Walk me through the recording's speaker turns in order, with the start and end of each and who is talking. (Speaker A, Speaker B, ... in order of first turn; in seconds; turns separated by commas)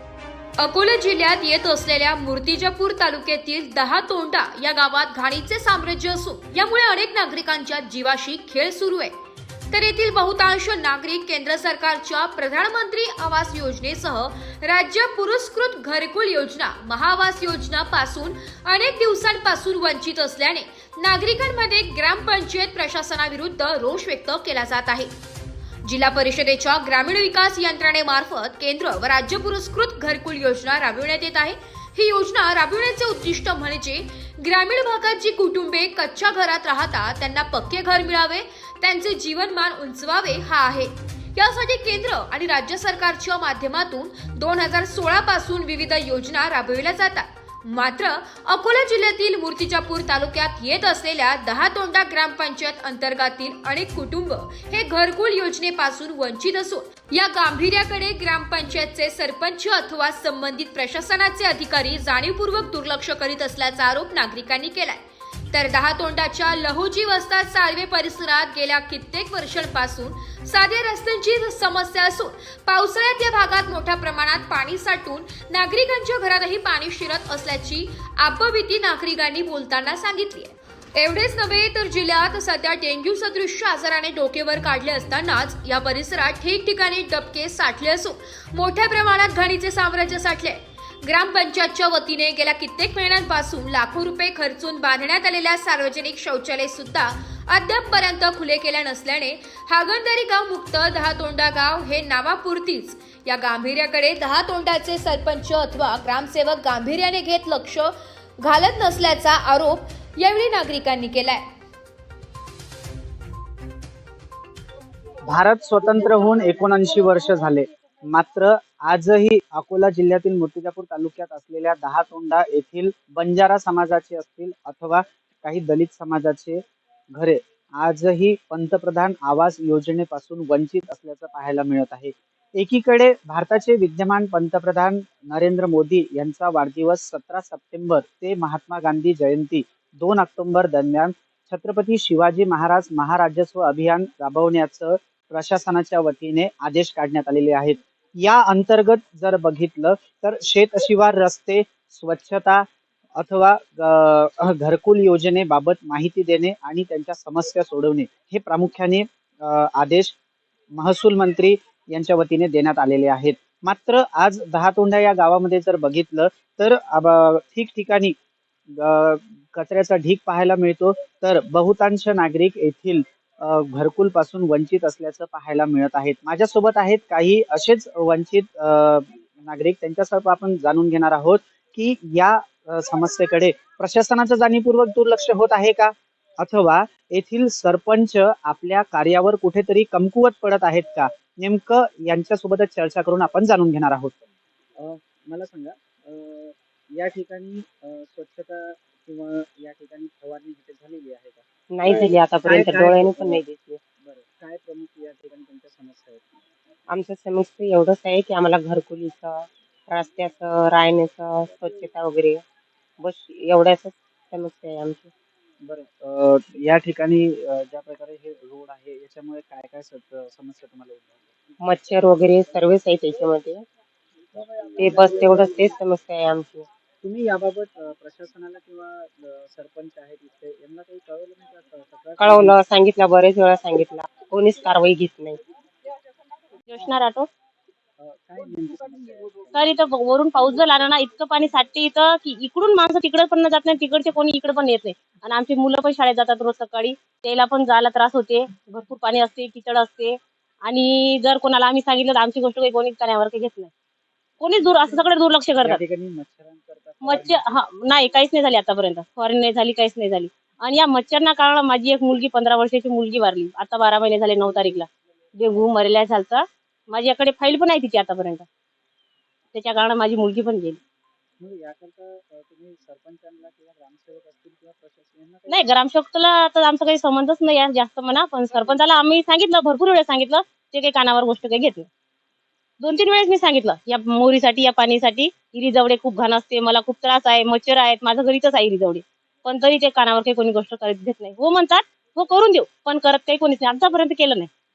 Speaker A: 0.6-9.1, Speaker A: 9.7-25.1, Speaker A: 25.8-111.5, Speaker B: 115.3-126.6, Speaker B: 127.1-152.7, Speaker B: 153.2-160.2, Speaker B: 160.8-168.2, Speaker B: 168.8-194.2, Speaker B: 194.8-203.4, Speaker C: 201.7-203.8, Speaker B: 204.0-206.3, Speaker C: 206.9-212.4, Speaker C: 213.0-215.1, Speaker B: 215.6-221.6, Speaker C: 221.6-223.6, Speaker B: 224.3-225.7, Speaker C: 224.8-226.7, Speaker B: 227.0-232.6, Speaker C: 232.2-235.4, Speaker D: 236.7-237.3, Speaker B: 238.0-239.7, Speaker D: 239.5-253.7, Speaker D: 254.4-255.8, Speaker B: 255.6-257.5, Speaker D: 257.0-268.5, Speaker D: 269.5-270.8, Speaker B: 271.4-275.7, Speaker D: 275.5-281.9, Speaker D: 282.8-294.5